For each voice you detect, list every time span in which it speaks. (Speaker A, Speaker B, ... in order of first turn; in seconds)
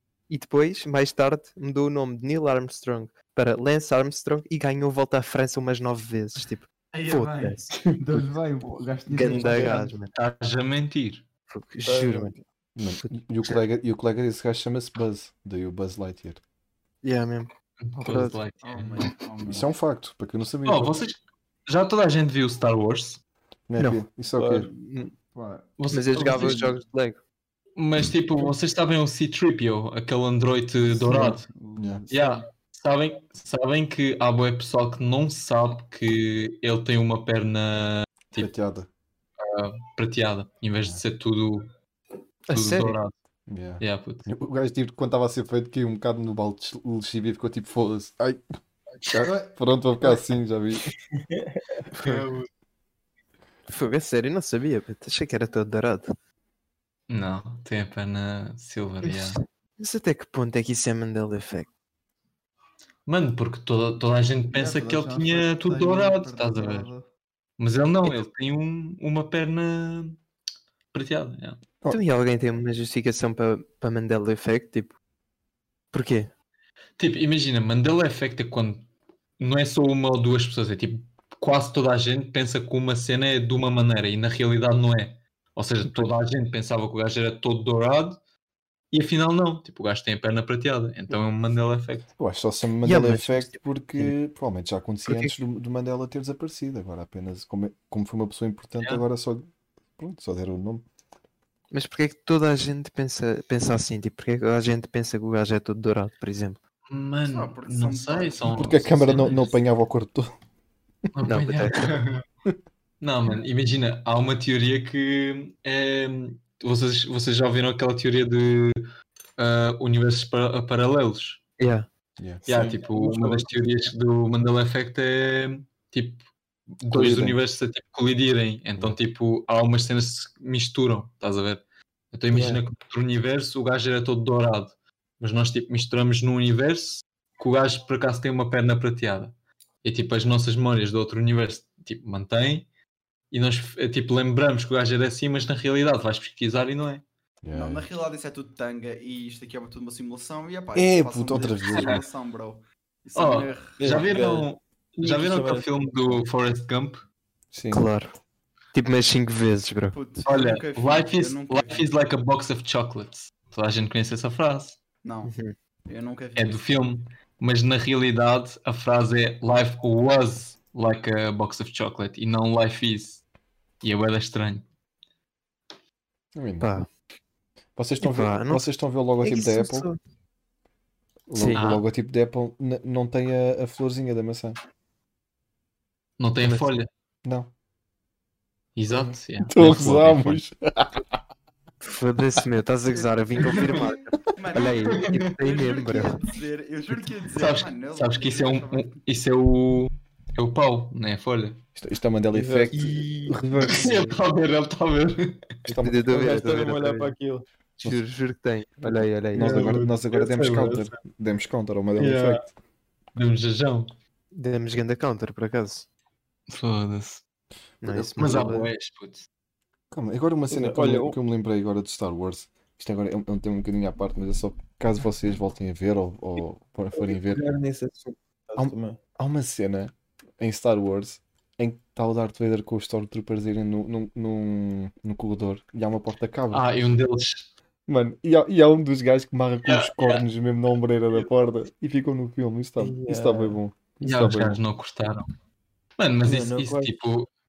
Speaker A: 0.3-7.8, 9.1-10.1, 11.5-12.3, 13.0-13.6, 17.0-18.4, 23.8-24.0, 24.7-25.1, 25.9-27.2, 42.5-43.0, 53.7-56.1, 59.0-61.7, 71.9-74.9, 75.9-76.3, 85.8-86.1, 92.8-94.1, 95.0-95.3, 101.7-106.6, 111.2-112.0, 121.6-121.9, 157.7-158.2, 158.7-159.9, 165.2-165.5, 176.6-176.9, 178.0-178.7, 179.2-180.0, 181.3-181.6, 186.4-186.7, 191.8-196.2, 205.7-207.2, 207.8-209.7, 214.3-215.9, 217.8-218.7
Speaker B: 6.9-9.9, 18.6-19.7, 25.3-25.7, 30.8-32.5, 49.2-49.5, 64.5-67.1, 107.2-109.5, 147.5-154.1, 159.9-161.9, 165.0-165.3, 165.9-166.5, 193.5-199.0
Speaker C: 10.1-11.2, 17.8-19.1, 20.6-23.2, 25.8-26.8, 27.8-31.4, 32.1-38.5, 39.4-41.7, 42.5-43.1, 43.8-44.3, 52.0-52.5, 57.1-59.4, 63.0-66.9, 67.6-70.2, 70.9-71.6, 77.0-78.9, 79.4-88.2, 88.9-92.1, 98.8-99.0, 106.9-109.5, 111.1-112.2, 113.0-118.8, 119.4-121.4, 122.5-126.2, 126.8-142.7, 143.3-147.0, 151.7-152.0, 153.1-157.1, 160.2-164.8, 166.4-173.2, 173.8-174.7, 181.5-181.8, 186.2-186.9, 188.8-190.4, 197.4-201.6, 203.6-205.5, 209.4-210.9, 212.0-212.4, 213.1-213.9, 216.5-217.2, 217.9-219.3, 236.5-237.5, 239.6-240.2, 244.0-245.3, 246.0-247.3
Speaker D: 11.8-12.4, 24.4-24.7, 51.1-52.2, 122.5-123.5, 132.3-132.6, 153.8-155.7, 202.3-203.4, 206.1-207.4, 220.5-221.2, 226.9-229.0, 242.8-243.6, 246.2-247.0
Speaker E: 12.8-16.4, 19.4-21.0, 23.7-24.7, 31.8-32.0, 38.4-38.9, 43.5-48.4, 49.2-50.9, 92.2-100.8, 108.5-110.3, 127.0-127.3, 147.4-147.9, 150.8-152.0, 157.5-157.9, 176.3-176.7, 177.8-179.9, 181.3-184.6, 187.2-187.5, 188.9-191.0, 201.8-204.1, 205.7-206.3, 209.3-212.5, 219.9-227.4, 228.6-236.7, 237.9-244.6